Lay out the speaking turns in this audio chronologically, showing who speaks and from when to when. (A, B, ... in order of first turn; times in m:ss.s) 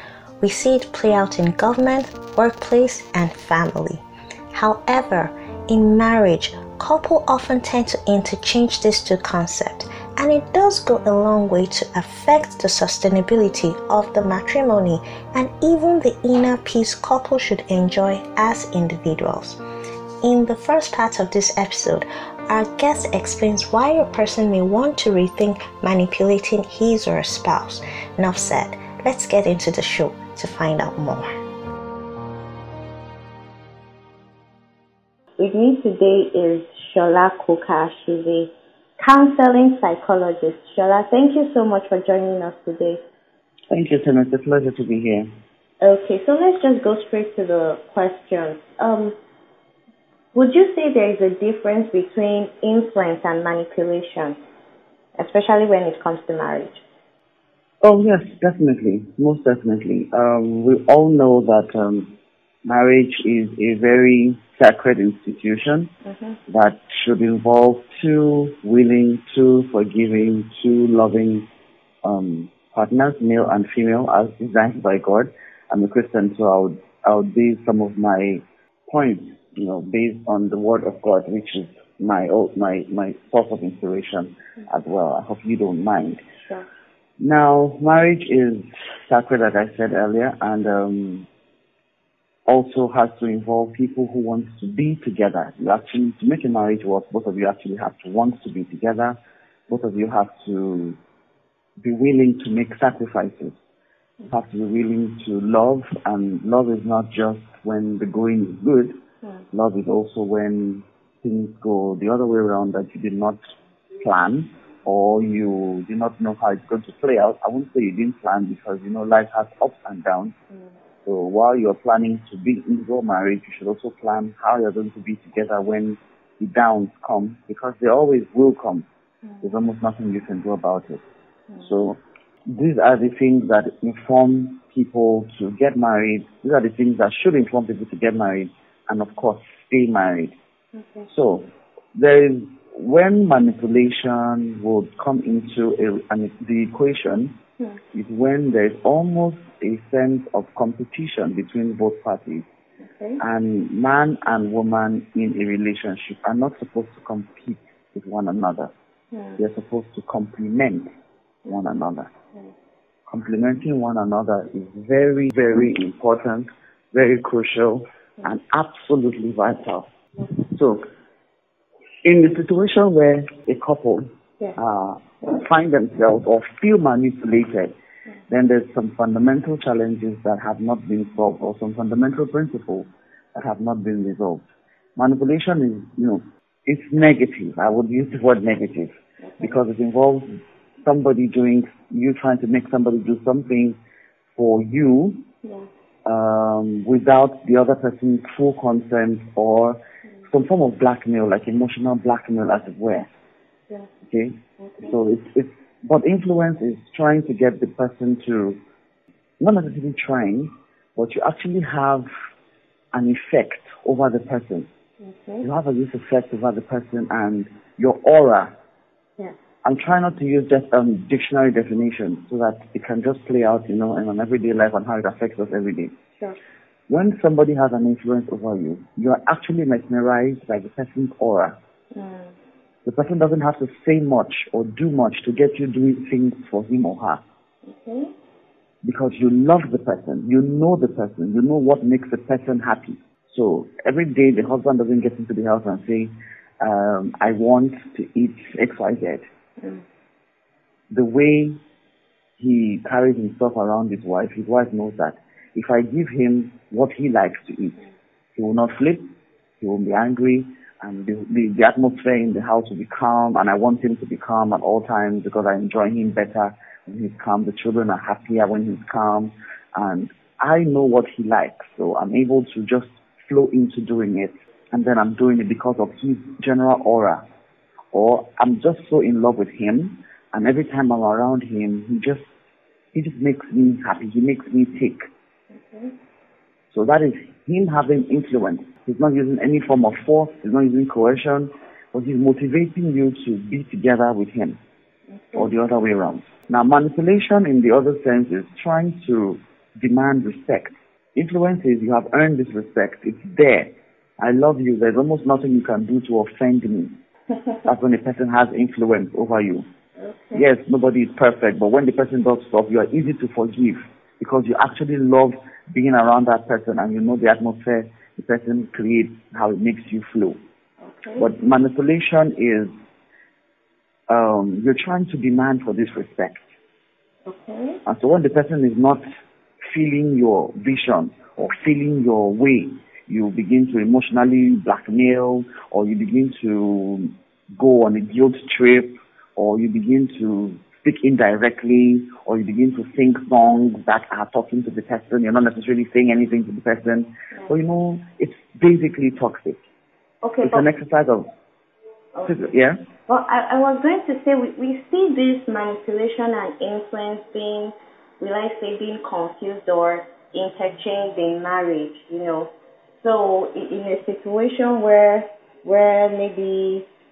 0:00.4-0:19.6 A
0:20.2-0:31.3 A
0:35.4-0:43.0 B
0:43.7-0:45.3 C
0:45.8-0:49.2 B
0:50.3-0:54.4 B
0:55.2-0:56.8 B
0:57.8-1:02.1 C
1:02.6-1:05.9 C
1:06.1-1:06.4 B
1:06.5-1:11.5 C
1:12.0-1:26.2 C
1:27.2-1:31.3 C
1:32.5-1:39.2 C
1:39.7-1:41.0 C
1:41.8-1:43.6 C
1:44.3-1:49.0 C
1:49.5-1:53.4 C
1:54.0-2:00.3 C
2:01.0-2:08.9 C
2:09.4-2:11.0 C
2:11.6-2:20.4 C
2:20.8-2:21.1 B
2:21.1-2:27.4 C
2:27.9-2:32.5 C
2:32.8-2:33.2 B
2:33.2-2:38.7 C
2:39.1-2:39.4 B
2:39.4-2:40.9 C
2:41.5-2:42.1 C
2:43.1-2:49.9 C
2:50.5-2:50.8 C
2:52.0-2:57.7 C
2:58.3-3:13.8 C
3:09.2-3:09.6 B
3:14.4-3:15.2 C
3:16.0-3:19.8 C
3:20.3-3:23.1 C
3:24.1-3:28.6 C
3:24.6-3:24.9 B
3:29.4-3:32.1 C
3:32.9-3:34.7 C
3:35.0-3:35.5 B
3:35.4-3:38.5 C
3:39.6-3:46.0 C
3:46.9-3:51.6 C
3:51.9-3:52.3 B
3:52.8-3:57.2 C
3:57.7-3:58.1 B
3:58.8-4:09.2 C
4:10.9-4:11.6 C
4:12.4-4:17.8 C
4:18.4-4:19.1 C
4:19.6-4:37.2 C
4:37.9-4:42.3 C
4:42.9-4:45.0 C
4:45.5-4:46.0 B
4:46.7-4:54.6 C
4:55.1-4:55.6 B
4:55.4-5:07.0 C
5:07.7-5:09.7 C
5:10.0-5:10.5 B
5:10.3-5:20.4 C
5:20.8-5:21.3 B
5:21.2-5:22.7 C
5:24.1-5:26.4 C
5:27.3-5:27.8 B
5:27.9-5:29.0 C
5:29.6-5:49.6 C
5:50.2-5:50.7 B
5:50.4-5:51.3 C
5:52.2-5:52.4 B
5:52.3-5:52.8 C
5:53.0-6:06.9 B